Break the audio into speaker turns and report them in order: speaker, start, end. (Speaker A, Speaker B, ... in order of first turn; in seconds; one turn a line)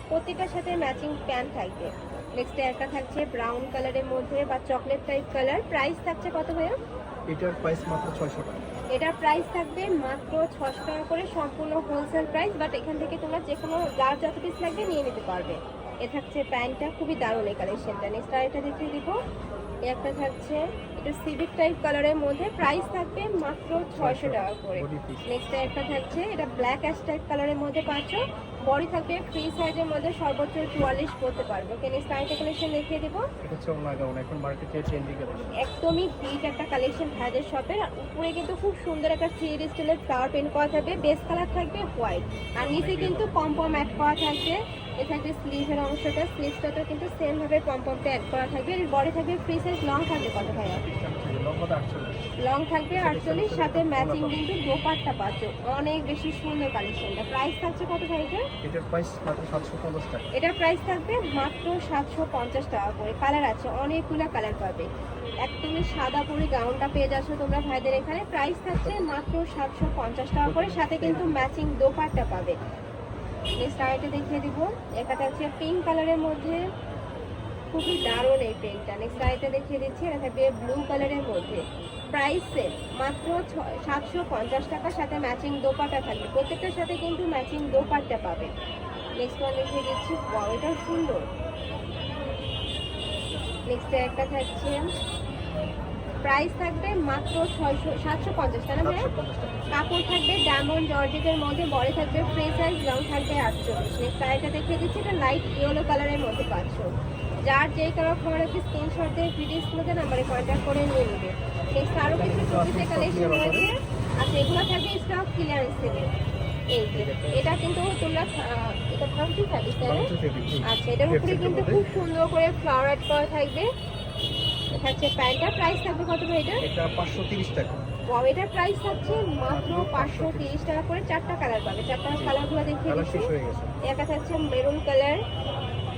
Speaker A: 0.1-6.7
Speaker B: 7.3-8.7
Speaker A: 8.9-19.1
Speaker A: 19.9-33.2
Speaker B: 24.0-25.3
Speaker B: 33.4-35.5
Speaker A: 35.6-50.8
Speaker B: 42.6-43.3
Speaker B: 50.6-52.2
Speaker A: 52.4-58.4
Speaker B: 52.9-54.5
Speaker B: 58.6-60.3
Speaker A: 60.3-64.9
Speaker A: 65.4-72.5
Speaker B: 68.7-69.1
Speaker B: 70.4-71.5
Speaker A: 73.6-76.6
Speaker A: 77.7-81.6
Speaker A: 82.1-88.5
Speaker A: 89.2-91.2
Speaker A: 93.7-94.8
Speaker A: 96.2-99.1
Speaker B: 98.8-99.8
Speaker A: 99.7-106.9
Speaker A: 107.4-116.1
Speaker B: 112.1-113.7
Speaker A: 116.7-120.1
Speaker B: 116.9-117.5
Speaker B: 119.8-121.8
Speaker A: 120.7-123.7
Speaker A: 124.8-126.6
Speaker B: 126.6-127.8
Speaker A: 128.1-133.2
Speaker B: 129.5-130.6
Speaker B: 132.1-133.7
Speaker A: 133.9-135.2